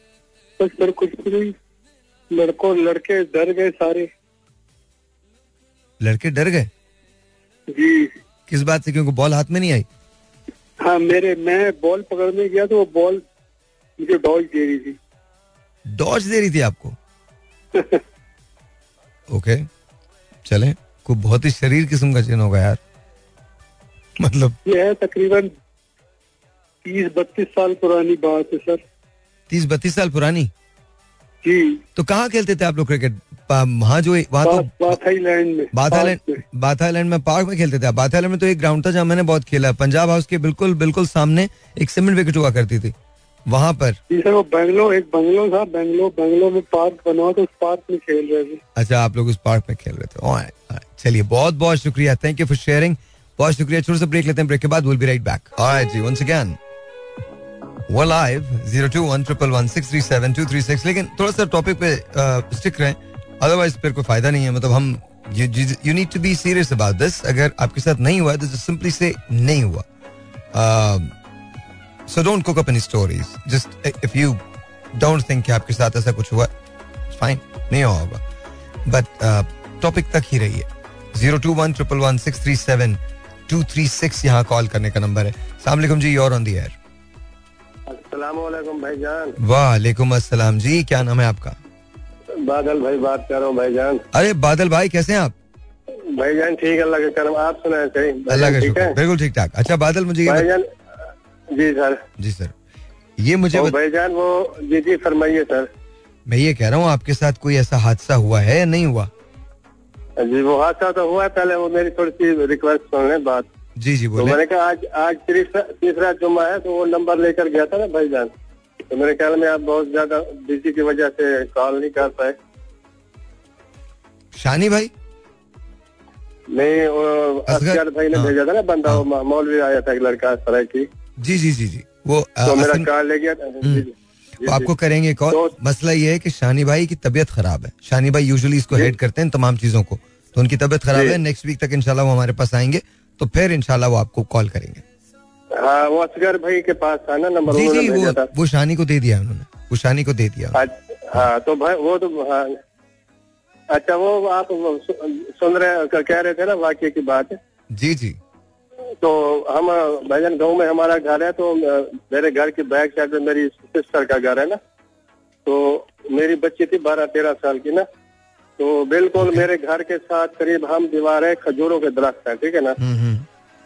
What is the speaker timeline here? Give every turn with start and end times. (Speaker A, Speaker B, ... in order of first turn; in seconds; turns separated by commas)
Speaker A: 0.6-1.6, Speaker A: 2.3-4.1, Speaker B: 6.0-6.7, Speaker A: 7.7-8.1, Speaker B: 8.5-9.9, Speaker A: 10.8-13.2, Speaker A: 14.0-15.0, Speaker B: 15.9-17.0, Speaker A: 17.8-18.0, Speaker B: 19.3-19.7, Speaker B: 20.5-22.8, Speaker B: 24.2-24.6, Speaker A: 24.6-25.5, Speaker A: 26.8-28.8, Speaker B: 29.5-30.5, Speaker A: 31.4-31.8, Speaker B: 32.0-35.0, Speaker A: 34.4-36.4, Speaker B: 35.7-42.9, Speaker B: 43.5-44.0, Speaker A: 44.1-48.6, Speaker B: 48.8-56.6, Speaker B: 57.9-69.9, Speaker B: 70.5-71.1, Speaker B: 72.1-74.4, Speaker B: 74.9-76.5, Speaker B: 77.1-78.2, Speaker B: 78.9-86.8, Speaker C: 87.9-89.4, Speaker B: 89.4-91.6, Speaker C: 92.4-94.0, Speaker B: 94.1-95.3, Speaker C: 96.1-99.0, Speaker B: 98.3-100.5, Speaker C: 100.3-100.7, Speaker C: 101.5-102.0, Speaker B: 102.2-102.5, Speaker B: 103.2-103.8, Speaker C: 103.5-105.7, Speaker B: 106.3-109.1, Speaker C: 110.2-113.5, Speaker B: 113.8-114.4, Speaker C: 114.2-118.3, Speaker C: 118.9-122.4, Speaker B: 124.3-124.9, Speaker C: 126.5-130.9, Speaker B: 127.5-128.3, Speaker B: 131.2-132.9, Speaker C: 132.4-134.7, Speaker B: 134.4-144.8, Speaker C: 140.9-141.2, Speaker C: 145.5-148.3, Speaker B: 147.5-150.6, Speaker C: 150.5-152.6, Speaker C: 153.7-157.4, Speaker B: 157.7-158.2, Speaker C: 159.0-164.6, Speaker C: 165.5-167.8, Speaker C: 168.6-172.8, Speaker B: 169.2-169.4, Speaker B: 172.8-173.3